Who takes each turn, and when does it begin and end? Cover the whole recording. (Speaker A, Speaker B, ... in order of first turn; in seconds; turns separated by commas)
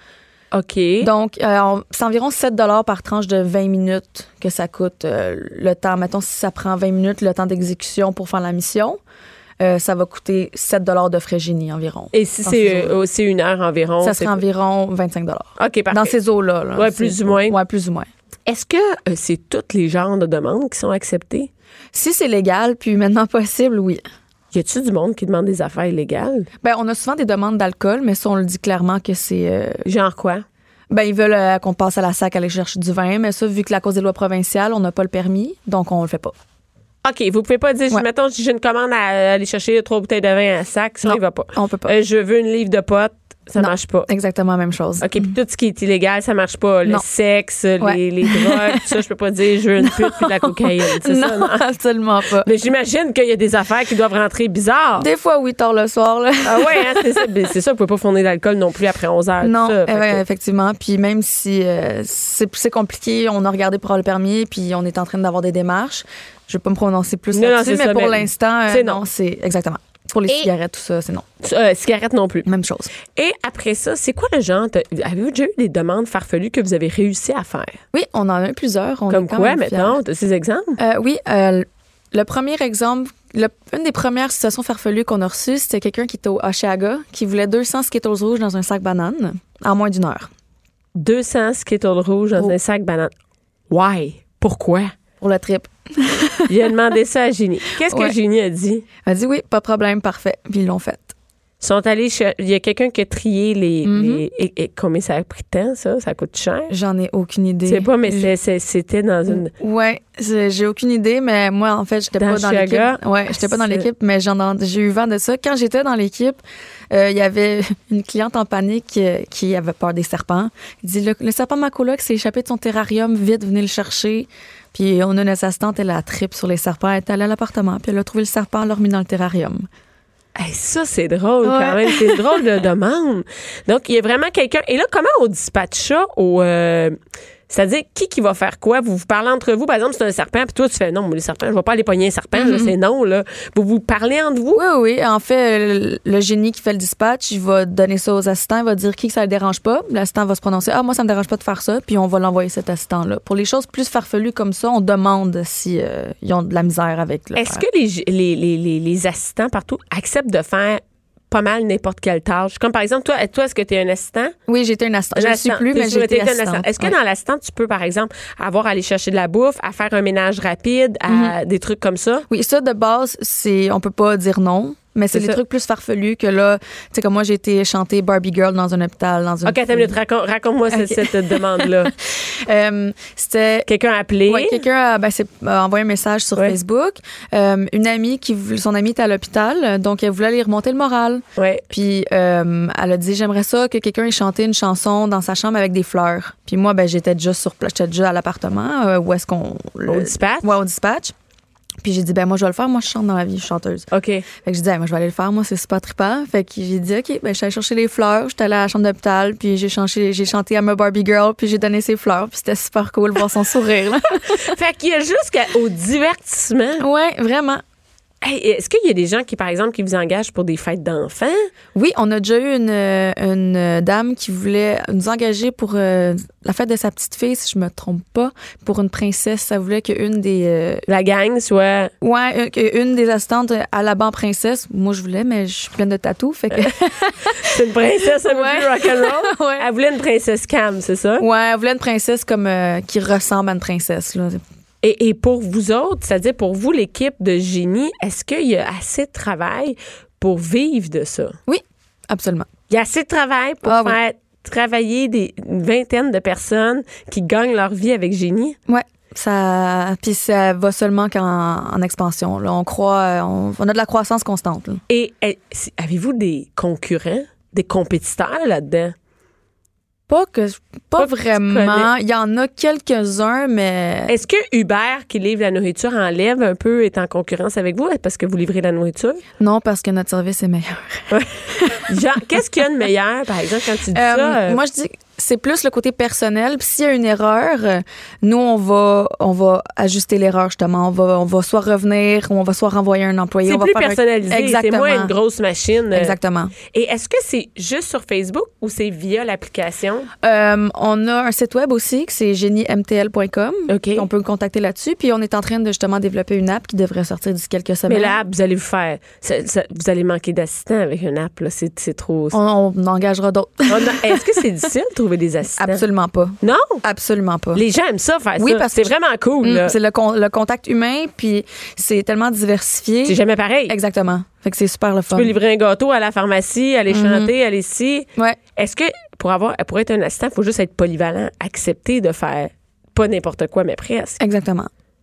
Speaker A: 0.5-1.1, Speaker B: 1.0-9.0, Speaker B: 9.6-13.0, Speaker A: 12.1-14.4, Speaker B: 14.0-18.1, Speaker A: 15.6-16.1, Speaker A: 16.8-17.6, Speaker A: 18.5-21.5, Speaker B: 21.9-24.0, Speaker A: 24.5-26.5, Speaker B: 26.6-29.8, Speaker A: 29.8-30.4, Speaker B: 30.9-36.3, Speaker A: 37.0-44.1, Speaker B: 41.0-42.0, Speaker B: 43.6-45.3, Speaker A: 45.0-51.6, Speaker B: 47.8-49.0, Speaker B: 49.8-52.5, Speaker A: 52.4-55.1, Speaker B: 55.0-56.9, Speaker A: 56.4-60.2, Speaker B: 59.4-71.2, Speaker A: 67.3-69.0, Speaker A: 71.4-72.5, Speaker B: 72.4-72.9, Speaker A: 73.1-77.8, Speaker B: 77.9-80.0, Speaker A: 79.1-80.8, Speaker B: 80.8-90.3, Speaker A: 91.0-93.1, Speaker A: 93.7-94.9, Speaker B: 95.2-96.5, Speaker A: 96.5-98.8, Speaker B: 97.8-98.1, Speaker B: 99.0-101.1, Speaker A: 101.6-106.7, Speaker B: 103.8-104.2, Speaker B: 106.7-108.3, Speaker A: 107.7-109.5, Speaker B: 109.6-116.4, Speaker A: 112.2-113.9, Speaker B: 116.9-129.7, Speaker A: 130.3-137.0, Speaker B: 131.4-132.2, Speaker A: 137.5-144.6, Speaker B: 142.3-142.7, Speaker B: 144.5-157.6, Speaker A: 157.3-164.3, Speaker B: 164.5-166.9, Speaker A: 165.1-172.2, Speaker B: 171.1-171.3, Speaker B: 172.3-179.9, Speaker A: 175.1-175.4, Speaker A: 179.4-181.9, Speaker B: 180.7-183.7, Speaker A: 183.7-184.6, Speaker B: 184.3-201.1, Speaker A: 191.4-191.6, Speaker A: 199.9-200.6, Speaker B: 201.8-214.5, Speaker A: 203.9-204.2, Speaker A: 214.3-216.8, Speaker B: 216.8-217.6, Speaker A: 218.2-221.5, Speaker B: 221.7-230.8, Speaker A: 230.8-231.9, Speaker B: 232.0-237.6, Speaker A: 237.3-241.3, Speaker B: 238.2-239.7, Speaker B: 241.2-244.4, Speaker A: 244.8-251.4, Speaker B: 251.5-252.5, Speaker A: 252.7-258.6, Speaker B: 253.6-254.0, Speaker B: 258.7-264.8, Speaker A: 264.9-268.9, Speaker B: 270.1-274.1, Speaker A: 270.9-271.9, Speaker A: 274.1-279.2, Speaker B: 279.4-281.9, Speaker A: 281.8-284.6, Speaker B: 283.9-295.1, Speaker A: 293.4-296.1, Speaker B: 295.9-296.5, Speaker A: 296.7-300.1, Speaker B: 300.2-308.2, Speaker A: 303.7-304.1, Speaker A: 307.9-312.4, Speaker B: 312.3-314.2, Speaker A: 313.7-315.8, Speaker B: 315.6-317.6, Speaker A: 316.4-316.8, Speaker A: 317.5-319.8, Speaker B: 318.4-325.3, Speaker A: 323.0-323.8, Speaker A: 325.1-334.2, Speaker B: 326.9-327.3, Speaker B: 334.2-334.7